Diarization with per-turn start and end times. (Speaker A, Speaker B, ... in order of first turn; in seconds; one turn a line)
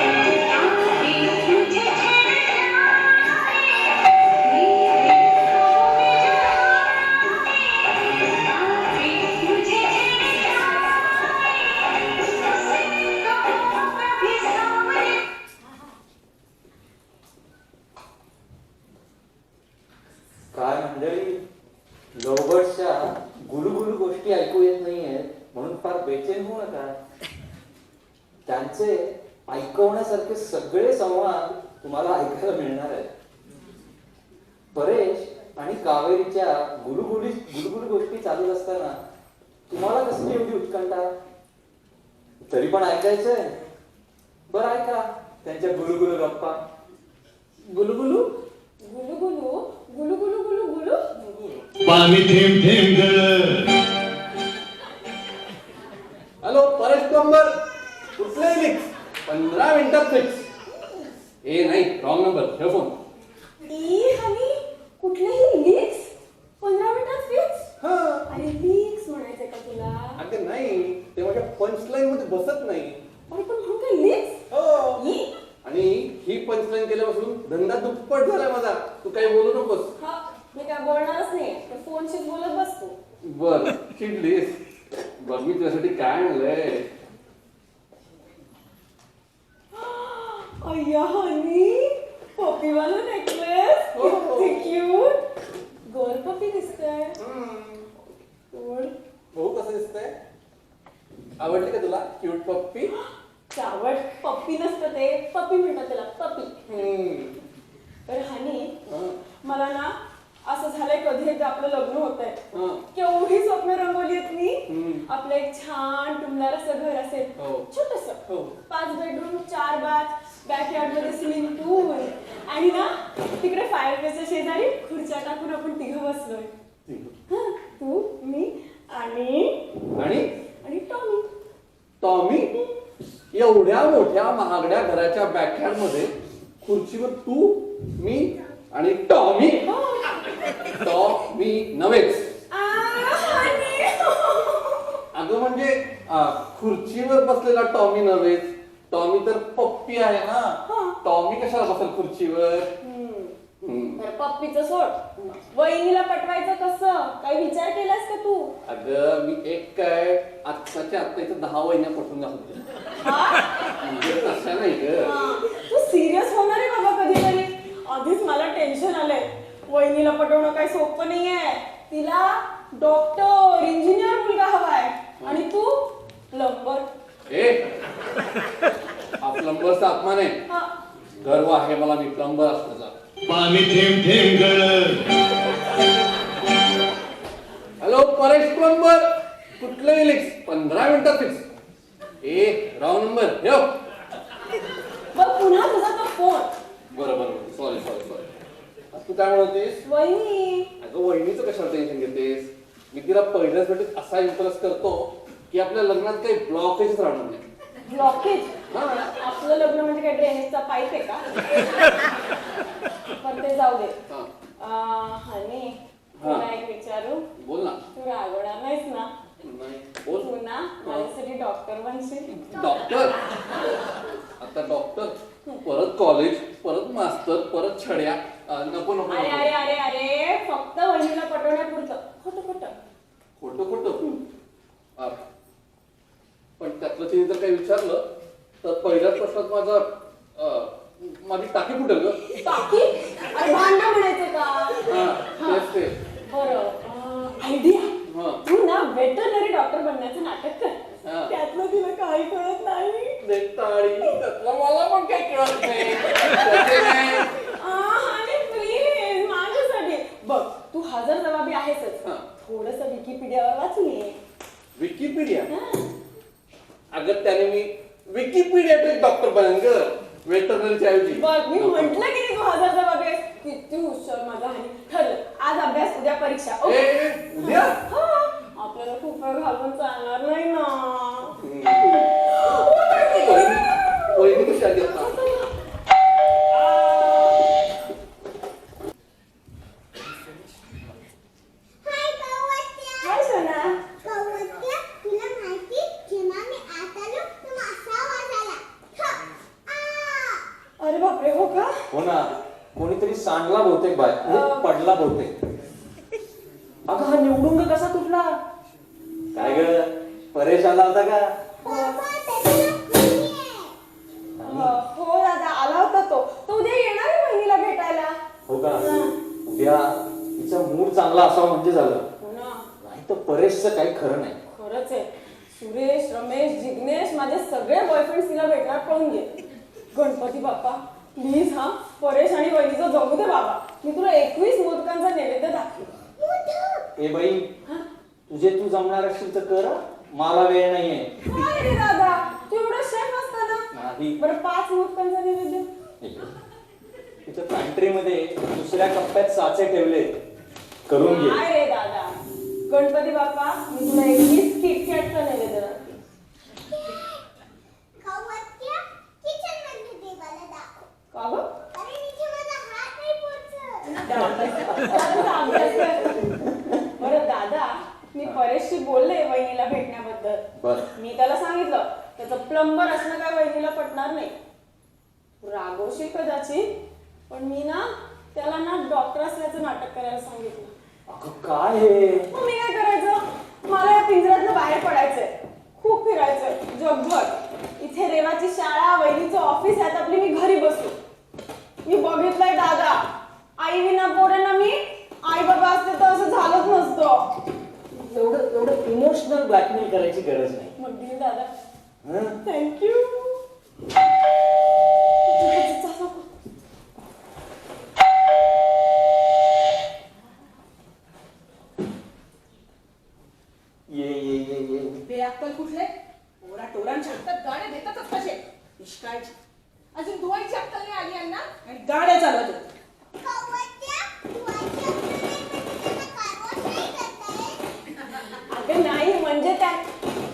Speaker A: 0.8-2.5
Speaker A: 4.6-5.3
Speaker B: 8.8-10.3
Speaker A: 9.6-9.8
Speaker B: 14.2-15.1
Speaker C: 20.5-21.4
Speaker C: 22.1-26.9
Speaker C: 28.4-33.1
Speaker C: 34.7-39.0
Speaker C: 39.7-41.1
Speaker C: 42.5-43.5
Speaker C: 44.5-46.6
Speaker D: 47.6-48.3
Speaker E: 48.8-51.0
Speaker D: 51.2-51.6
Speaker F: 51.8-53.7
Speaker D: 56.4-57.5
Speaker D: 58.2-60.5
Speaker D: 61.4-63.0
Speaker E: 63.7-67.7
Speaker D: 67.8-68.3
Speaker E: 68.3-70.2
Speaker D: 70.2-73.0
Speaker E: 73.3-74.4
Speaker D: 74.5-75.0
Speaker E: 75.0-75.3
Speaker D: 75.6-79.9
Speaker E: 80.0-83.0
Speaker D: 83.2-84.5
Speaker D: 85.2-86.9
Speaker E: 89.7-95.2
Speaker D: 93.9-94.7
Speaker E: 95.8-97.2
Speaker D: 97.2-98.0
Speaker E: 98.5-98.9
Speaker D: 99.3-100.1
Speaker D: 101.4-102.9
Speaker E: 103.5-106.5
Speaker D: 106.7-107.4
Speaker E: 108.1-108.7
Speaker D: 108.9-109.2
Speaker E: 109.4-126.5
Speaker D: 112.5-112.8
Speaker D: 114.7-115.0
Speaker D: 117.4-117.7
Speaker D: 118.3-118.5
Speaker D: 126.8-127.1
Speaker E: 127.3-129.7
Speaker D: 129.9-130.3
Speaker E: 130.6-131.3
Speaker D: 132.0-132.5
Speaker D: 133.3-136.1
Speaker D: 136.6-139.7
Speaker E: 139.6-140.2
Speaker D: 140.7-142.3
Speaker E: 142.5-145.0
Speaker D: 145.1-152.7
Speaker E: 150.7-151.0
Speaker E: 152.8-153.3
Speaker D: 153.6-154.0
Speaker E: 154.0-158.5
Speaker D: 158.6-162.7
Speaker E: 163.0-163.7
Speaker D: 163.8-165.2
Speaker E: 165.0-176.8
Speaker D: 177.3-177.6
Speaker D: 179.2-180.4
Speaker D: 181.2-182.9
Speaker F: 183.2-185.0
Speaker D: 187.8-191.4
Speaker D: 192.2-193.8
Speaker E: 195.1-196.5
Speaker D: 196.9-198.3
Speaker D: 198.9-199.8
Speaker E: 199.8-200.7
Speaker D: 200.8-207.4
Speaker E: 207.8-208.5
Speaker D: 208.7-209.1
Speaker E: 209.2-211.2
Speaker E: 213.2-213.9
Speaker E: 214.6-217.2
Speaker D: 216.2-216.4
Speaker D: 217.4-217.8
Speaker E: 217.9-219.1
Speaker D: 219.4-220.3
Speaker E: 220.2-222.3
Speaker D: 222.4-223.2
Speaker D: 224.4-229.5
Speaker E: 229.1-232.7
Speaker D: 233.4-234.0
Speaker D: 236.6-238.0
Speaker D: 238.6-242.4
Speaker E: 242.4-244.9
Speaker D: 244.8-245.9
Speaker E: 246.3-253.2
Speaker D: 248.1-248.4
Speaker D: 251.0-251.3
Speaker D: 253.2-257.3
Speaker E: 256.3-256.7
Speaker E: 257.4-264.2
Speaker D: 264.8-265.5
Speaker E: 265.5-265.9
Speaker D: 266.9-272.0
Speaker E: 271.1-276.8
Speaker D: 276.6-277.8
Speaker E: 277.4-285.5
Speaker D: 281.4-282.1
Speaker D: 282.6-285.1
Speaker B: 291.8-293.4
Speaker E: 293.0-293.8
Speaker B: 293.9-300.4
Speaker E: 300.8-301.7
Speaker C: 301.9-305.4
Speaker E: 304.2-304.7
Speaker C: 306.9-308.4
Speaker C: 309.3-311.3
Speaker E: 309.3-309.6
Speaker B: 311.6-313.7
Speaker E: 311.6-312.0
Speaker C: 314.4-314.8
Speaker E: 314.4-318.2
Speaker C: 318.4-318.9
Speaker E: 318.7-319.1
Speaker C: 319.4-322.1
Speaker E: 322.2-322.7
Speaker C: 322.8-324.4
Speaker E: 324.5-329.3
Speaker E: 329.9-335.9
Speaker B: 336.2-336.9
Speaker C: 337.0-337.5
Speaker C: 338.3-341.1
Speaker E: 341.2-343.7
Speaker C: 343.7-344.2
Speaker E: 344.2-345.7
Speaker C: 346.0-346.3
Speaker C: 347.2-350.1
Speaker C: 350.9-351.4
Speaker E: 351.0-352.1
Speaker E: 352.7-356.0
Speaker B: 356.7-357.2
Speaker B: 358.0-360.9
Speaker E: 361.1-361.4
Speaker B: 361.7-364.1
Speaker E: 363.9-366.3
Speaker C: 364.1-366.9
Speaker E: 367.0-370.4
Speaker C: 370.5-370.9
Speaker E: 370.9-374.3
Speaker E: 375.4-376.7
Speaker E: 377.3-380.7
Speaker C: 381.1-382.3
Speaker E: 382.3-390.9
Speaker E: 391.8-393.1
Speaker E: 393.6-397.3
Speaker C: 397.9-400.7
Speaker E: 400.8-401.5
Speaker C: 402.0-402.4
Speaker E: 402.4-403.4
Speaker E: 405.3-406.2
Speaker C: 413.9-415.0
Speaker A: 415.0-419.3
Speaker A: 419.9-422.6
Speaker B: 423.2-427.6
Speaker E: 428.5-429.8